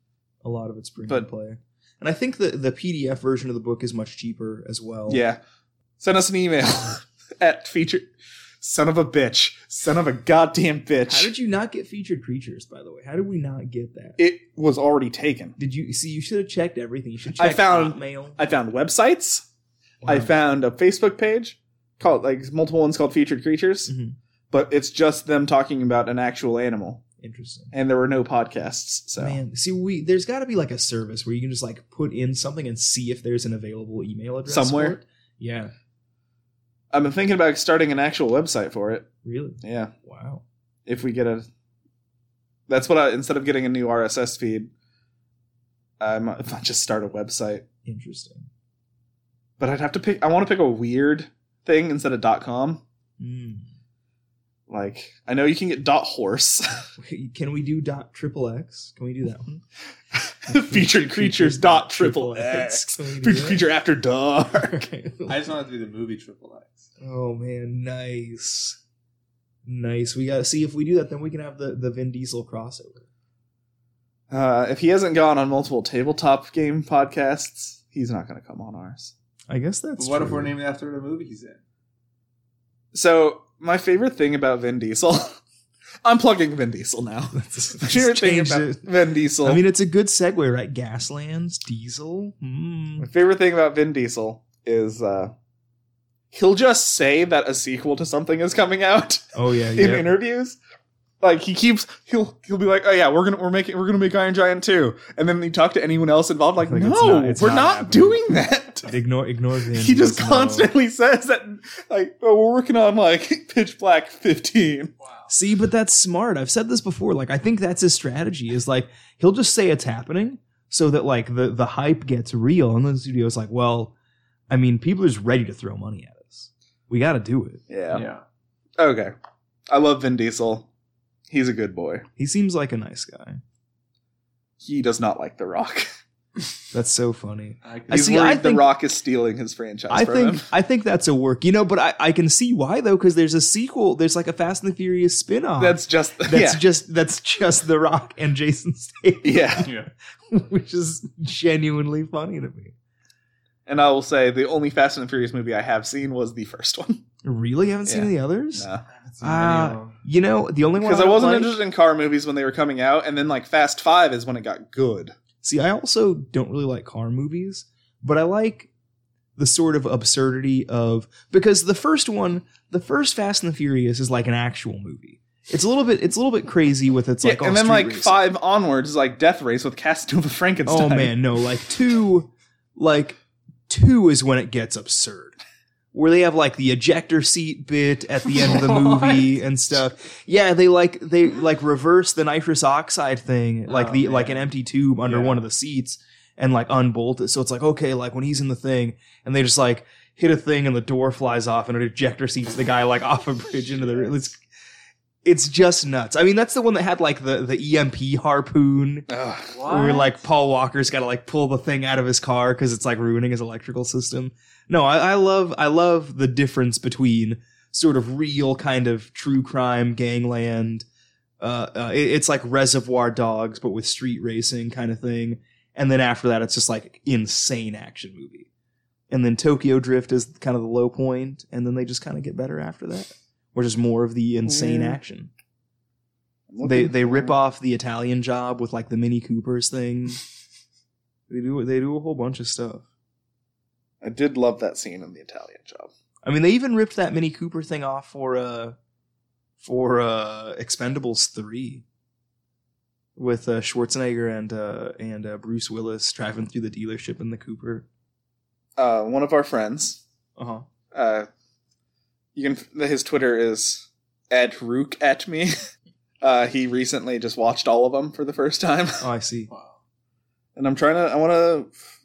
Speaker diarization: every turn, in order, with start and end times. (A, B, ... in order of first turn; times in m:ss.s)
0:00.4-0:05.2 A
0:05.1-0:05.4 B
0:06.0-0:08.1 B
0:08.6-0:11.3 B
0:11.1-0:14.2 A
0:14.2-0:15.6 B
0:15.6-0:18.4 A
0:17.3-0:19.4 B
0:20.0-0:23.9 B
0:23.9-0:24.2 A
0:24.5-0:27.0 B
0:27.2-0:27.7 A
0:27.7-0:29.4 B
0:29.2-0:35.7 A
0:34.5-0:35.0 B
0:36.9-0:39.1 B
0:39.2-0:40.4 A
0:39.6-0:39.9 B
0:40.9-0:41.5 B
0:42.7-0:44.7 B
0:46.0-0:47.6 B
0:47.8-0:48.5 A
0:49.6-0:52.8 B
0:53.2-0:53.7 A
0:54.7-0:56.7 B
0:57.0-0:59.6 A
1:00.3-1:04.8 B
1:00.5-1:03.6 A
1:04.6-1:05.5 A
1:05.3-1:06.9 C
1:07.0-1:08.8 A
1:09.6-1:13.0 A
1:14.3-1:19.1 B
1:19.5-1:20.6 A
1:20.0-1:21.6 C
1:22.9-1:25.3 B
1:26.0-1:29.6 B
1:27.3-1:28.9 A
1:29.4-1:33.1 A
1:33.0-1:35.3 B
1:36.3-1:40.6 B
1:39.4-1:40.1 A
1:41.2-1:48.9 B
1:46.6-1:48.2 A
1:48.9-1:50.7 A
1:49.7-1:54.9 B
1:55.0-1:55.3 C
1:55.3-2:03.9 A
2:04.5-2:08.0 A
2:07.7-2:08.0 B
2:07.9-2:08.2 C
2:08.8-2:09.1 B
2:09.7-2:10.7 B
2:11.3-2:12.0 B
2:12.2-2:13.4 A
2:14.6-2:15.9 B
2:16.7-2:18.7 A
2:17.6-2:18.3 C
2:17.9-2:20.5 B
2:19.9-2:29.7 A
2:25.6-2:26.6 B
2:29.2-2:29.7 B
2:29.6-2:29.9 C
2:30.3-2:32.7 A
2:33.7-2:37.0 B
2:37.2-2:38.7 A
2:37.9-2:38.8 B
2:39.0-2:40.0 C
2:39.2-2:41.6 A
2:40.8-2:45.2 B
2:45.4-2:48.7 A
2:49.4-2:58.2 A
2:57.2-3:01.1 B
3:00.7-3:05.4 A
3:05.9-3:24.4 A
3:08.3-3:09.4 C
3:13.7-3:14.5 C
3:15.1-3:15.4 C
3:25.2-3:29.1 A
3:29.1-3:29.5 B
3:29.5-3:30.2 C
3:29.7-3:40.8 A
3:41.4-3:48.5 A
3:49.1-3:55.3 A
3:54.5-3:55.0 B
3:56.5-3:57.4 B
3:56.6-4:00.2 A
4:01.3-4:02.8 A
4:04.0-4:05.9 B
4:06.2-4:08.8 A
4:09.6-4:11.8 A
4:13.2-4:17.9 A
4:18.8-4:20.0 B
4:20.4-4:20.7 A
4:20.9-4:21.3 B
4:22.4-4:25.5 B
4:26.2-4:29.0 B
4:29.0-4:29.5 A
4:29.5-4:29.8 C
4:30.6-4:31.8 B